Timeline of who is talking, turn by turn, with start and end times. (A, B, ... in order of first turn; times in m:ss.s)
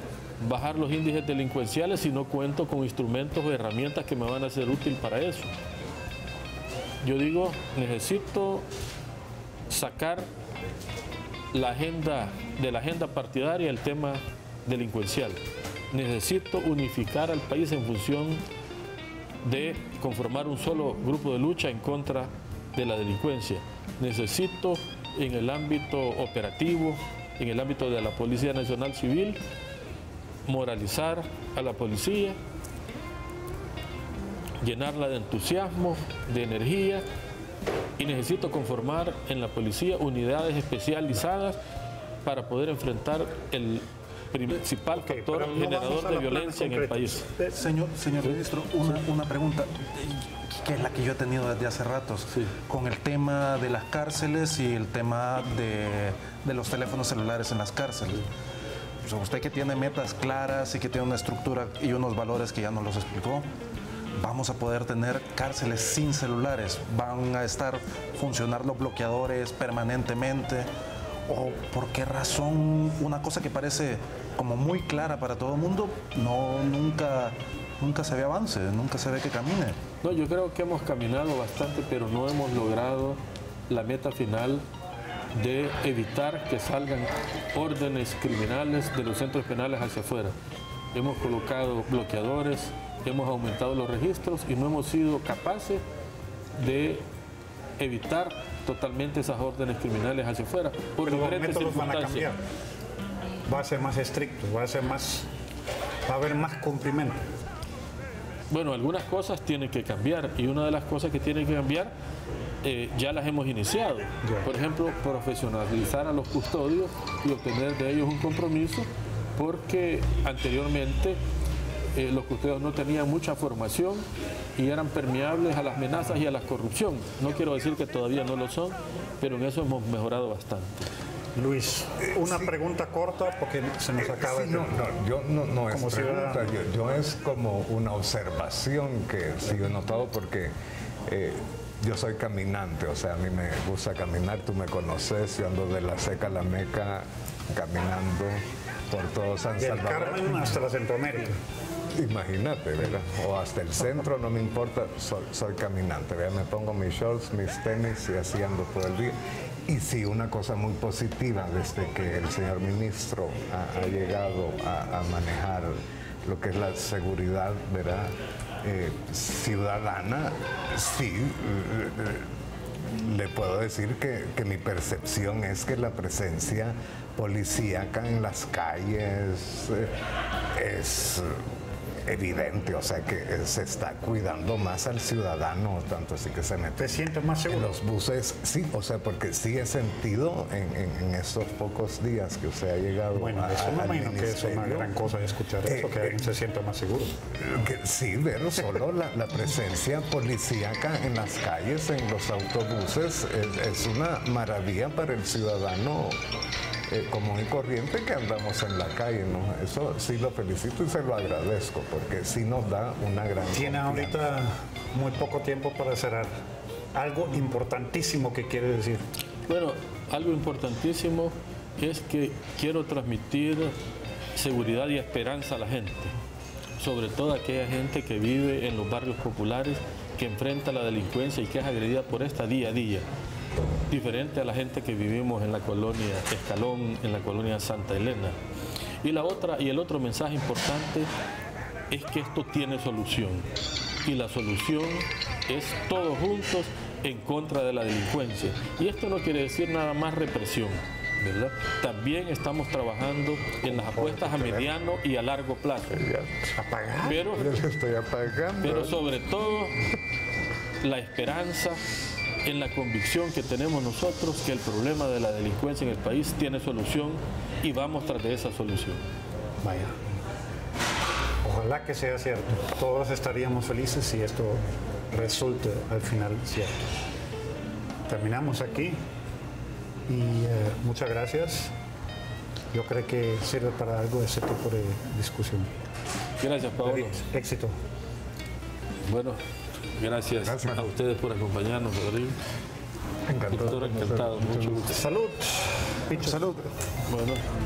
0:00.4-0:05.5 A
0:07.0-0:08.6 A
0:09.7-0:10.3 A
0:11.5-0:18.4 A
0:19.4-0:29.4 A
0:30.4-0:32.4 A
0:34.6-0:37.0 A
0:38.0-0:41.6 A
0:42.2-0:47.3 A
0:44.9-0:47.6 B
0:47.6-0:58.2 C
0:59.0-1:03.4 C
1:04.2-1:10.6 C
1:11.3-1:17.3 C
1:17.8-1:19.7 C
1:20.0-1:24.6 A
1:25.3-1:30.3 A
1:30.9-1:35.8 A
1:36.6-1:37.0 A
1:37.8-1:42.3 A
1:41.0-1:42.4 B
1:43.5-1:45.3 B
1:46.0-1:47.2 B
1:48.5-1:51.9 A
1:52.6-2:01.2 A
1:54.2-1:54.5 B
2:01.9-2:10.9 A
2:11.3-2:14.8 B
2:14.0-2:20.5 D
2:15.7-2:16.5 B
2:21.1-2:30.5 D
2:29.6-2:31.4 B
2:31.9-2:39.2 D
2:39.7-2:52.3 D
2:52.8-2:59.9 D
3:00.5-3:01.4 D
3:02.0-3:07.0 D
3:06.8-3:07.8 B
3:07.5-3:14.9 D
3:13.1-3:17.2 B
3:15.6-3:16.2 D
3:17.3-3:26.2 D
3:26.9-3:34.3 D
3:33.5-3:36.3 B
3:36.9-3:39.0 B
3:39.4-3:43.7 A
3:44.3-3:46.1 A
3:46.8-3:53.1 A
3:53.9-3:58.4 A
3:59.0-4:01.1 A
4:01.9-4:03.5 A
4:04.0-4:10.8 A
4:11.6-4:16.0 A
4:13.7-4:14.7 B
4:15.9-4:16.5 D
4:16.5-4:17.3 B
4:17.0-4:17.5 A
4:17.2-4:19.0 D
4:18.6-4:19.8 A
4:20.8-4:21.8 A
4:22.4-4:29.0 A
4:29.6-4:30.0 B
4:31.4-4:36.8 B
4:38.1-4:39.0 B
4:40.1-4:41.7 B
4:42.7-4:45.7 B
4:46.4-4:47.2 A
4:46.8-4:47.7 B
4:49.0-4:49.4 A
4:49.9-4:52.4 A
4:50.4-4:50.9 D
4:53.3-4:55.0 D
4:53.5-4:55.0 A
4:54.9-4:56.5 B
4:56.2-4:56.6 D
4:57.0-4:57.4 A